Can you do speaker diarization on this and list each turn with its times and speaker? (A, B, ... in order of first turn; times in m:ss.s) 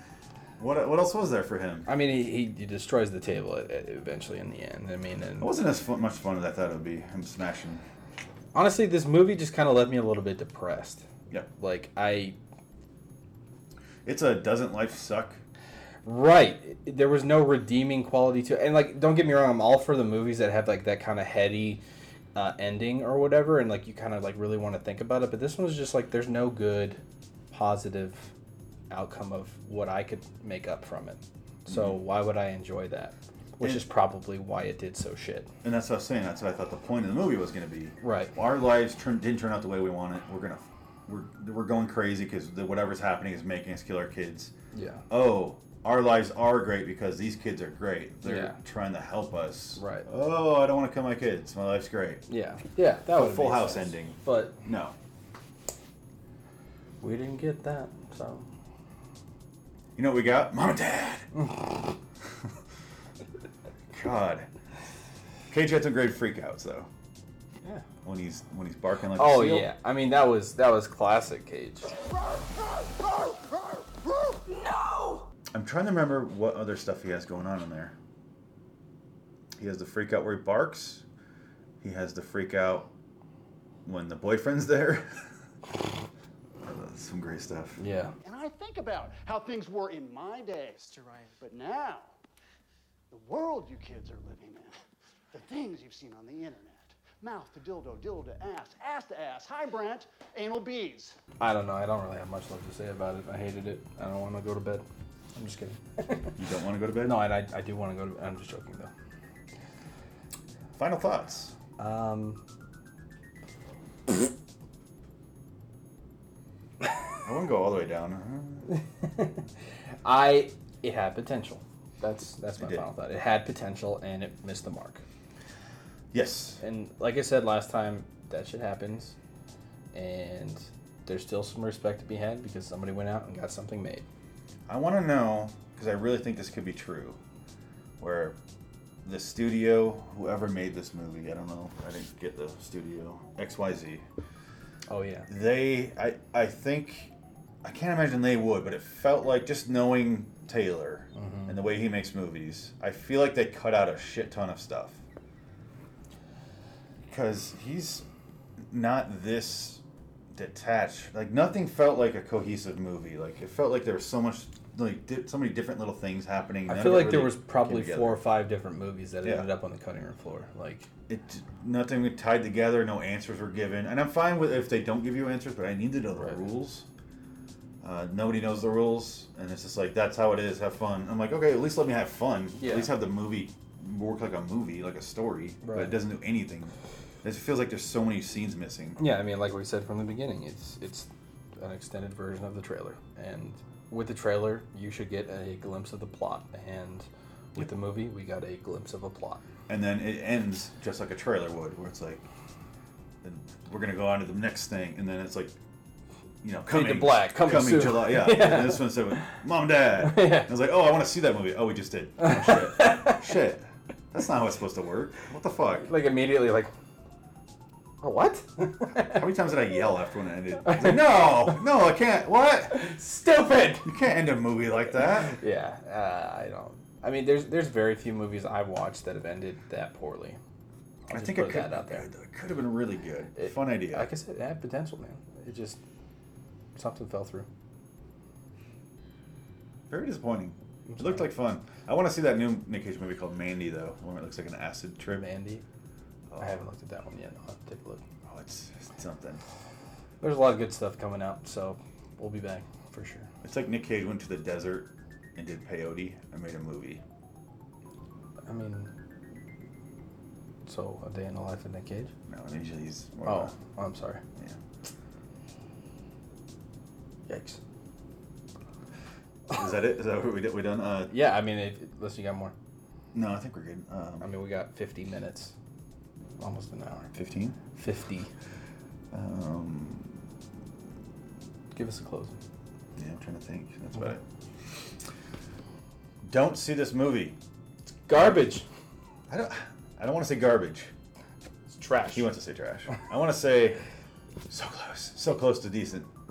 0:00.6-0:01.9 A
0:01.8-0:05.5 B
0:05.4-0:07.8 A
0:08.5-0:12.4 B
0:14.0-0:15.4 A
0:16.0-0:21.8 B
0:22.3-0:27.0 B
0:27.5-0:28.3 B
0:28.9-0:35.5 B
0:31.7-0:31.9 A
0:33.6-0:33.8 A
0:35.6-0:44.5 A
0:38.0-0:38.3 B
0:44.7-0:45.0 B
0:45.1-0:52.2 A
0:48.2-0:48.6 B
0:49.8-0:50.1 B
0:52.3-0:54.6 B
0:53.1-0:54.9 A
0:57.0-0:58.5 B
1:00.0-1:01.3 A
1:01.4-1:01.9 B
1:03.9-1:04.5 A
1:05.5-1:06.9 A
1:08.0-1:09.7 A
1:09.1-1:11.9 B
1:12.0-1:14.4 C
1:15.5-1:17.9 A
1:19.6-1:21.0 A
1:21.8-1:22.9 A
1:23.8-1:25.2 A
1:26.6-1:27.8 A
1:27.8-1:28.1 B
1:28.2-1:32.1 C
1:33.1-1:34.8 C
1:35.3-1:41.2 C
1:41.4-1:46.3 B
1:46.4-1:47.3 A
1:47.0-1:48.9 B
1:50.8-1:51.5 A
1:51.8-1:52.4 B
1:57.2-1:58.7 A
1:58.7-1:59.3 B
2:00.0-2:05.0 B
2:02.6-2:02.8 A
2:06.1-2:06.6 A
2:06.6-2:09.2 B
2:09.9-2:14.0 B
2:14.7-2:17.2 A
2:18.0-2:18.4 A
2:19.0-2:24.0 A
2:24.9-2:25.3 B
2:25.3-2:27.1 A
2:27.6-2:35.0 A
2:31.2-2:31.5 B
2:37.1-2:38.0 A
2:38.7-2:39.8 A
2:40.3-2:48.2 A
2:46.7-2:50.9 B
2:49.2-2:49.5 A
2:51.1-2:56.9 A
2:57.8-3:09.0 A
3:02.6-3:02.9 B
3:05.6-3:05.9 B
3:09.0-3:19.4 B
3:19.7-3:22.2 A
3:23.2-3:25.5 A
3:26.4-3:35.9 A
3:26.7-3:29.2 B
3:30.0-3:30.5 B
3:32.2-3:33.3 B
3:35.7-3:36.7 B
3:38.0-3:39.2 B
3:38.9-3:42.8 A
3:40.6-3:41.6 B
3:42.7-3:43.9 B
3:43.8-3:45.4 A
3:45.1-3:50.4 B
3:51.1-3:52.0 B
3:51.1-3:54.1 A
3:53.4-3:55.8 B
3:56.8-3:57.5 B
3:59.9-4:05.2 A
4:00.9-4:01.2 B
4:05.1-4:05.6 B
4:06.3-4:06.6 A
4:06.4-4:08.0 B
4:08.3-4:09.4 A
4:10.2-4:13.3 B
4:13.4-4:17.0 A
4:18.5-4:18.9 B
4:20.6-4:22.1 B
4:22.3-4:23.5 A
4:23.2-4:24.2 B
4:27.3-4:27.6 B
4:29.5-4:31.2 A
4:31.1-4:32.5 B
4:33.1-4:34.3 A
4:34.2-4:35.5 B
4:36.4-4:37.1 B
4:37.1-4:37.6 A
4:37.7-4:38.3 B
4:39.1-4:40.1 A
4:41.7-4:42.4 B
4:43.0-4:44.2 A
4:46.2-4:47.4 A
4:48.1-4:48.6 B
4:48.1-4:48.5 A
4:49.3-4:50.9 A
4:51.7-4:52.3 B
4:52.0-4:53.8 A
4:54.5-4:56.1 A